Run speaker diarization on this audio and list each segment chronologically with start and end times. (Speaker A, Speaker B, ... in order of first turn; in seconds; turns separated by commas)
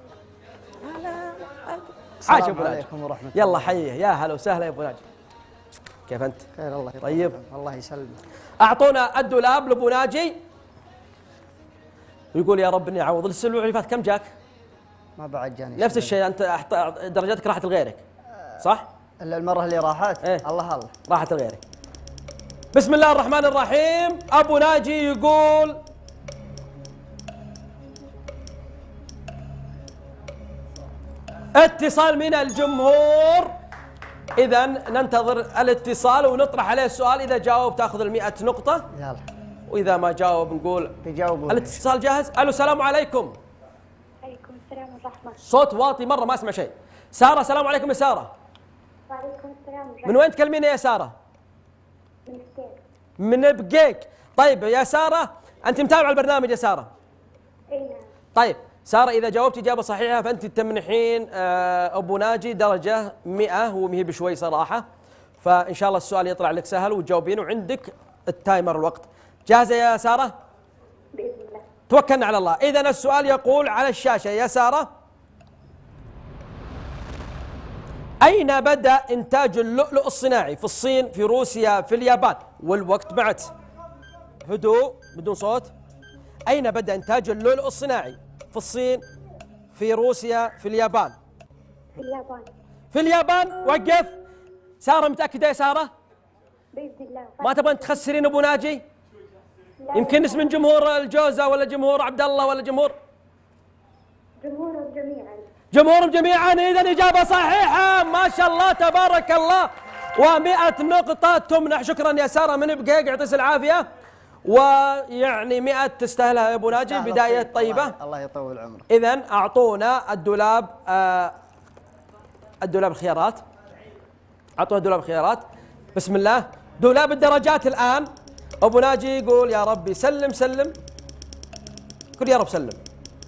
Speaker A: 0.8-2.8, Speaker B: 2.2-3.8, Speaker A: 3.3-5.0, Speaker A: 6.1-6.5, Speaker B: 6.5-8.2, Speaker A: 7.0-7.4, Speaker A: 8.6-10.4, Speaker A: 12.3-14.3, Speaker B: 15.2-16.2, Speaker A: 15.8-18.0, Speaker A: 18.6-18.9, Speaker B: 19.2-20.9, Speaker A: 21.1-21.6, Speaker A: 22.7-25.8, Speaker A: 31.6-33.5, Speaker A: 34.4-38.9, Speaker B: 38.9-39.2, Speaker A: 39.7-41.0, Speaker B: 41.0-41.8, Speaker A: 41.5-43.4, Speaker C: 44.2-45.4, Speaker A: 45.4-48.3, Speaker C: 49.1-50.2, Speaker A: 50.0-51.1, Speaker C: 52.3-52.8, Speaker A: 53.2-56.9, Speaker C: 57.7-58.1, Speaker A: 58.3-64.8, Speaker A: 65.4-70.3, Speaker C: 71.2-71.7, Speaker A: 71.9-74.9, Speaker A: 78.2-83.5, Speaker A: 84.5-85.7, Speaker A: 86.5-89.0, Speaker A: 89.7-91.2, Speaker C: 92.0-92.5, Speaker A: 92.9-94.1, Speaker A: 94.8-95.9, Speaker C: 96.8-98.0, Speaker A: 97.4-98.8, Speaker C: 99.8-100.5, Speaker A: 99.9-103.0, Speaker C: 104.4-105.5, Speaker A: 105.7-113.9, Speaker A: 114.5-118.0, Speaker B: 116.7-118.9, Speaker A: 118.9-121.3, Speaker A: 122.6-123.4, Speaker A: 124.6-128.1, Speaker A: 128.6-130.7, Speaker A: 132.2-132.8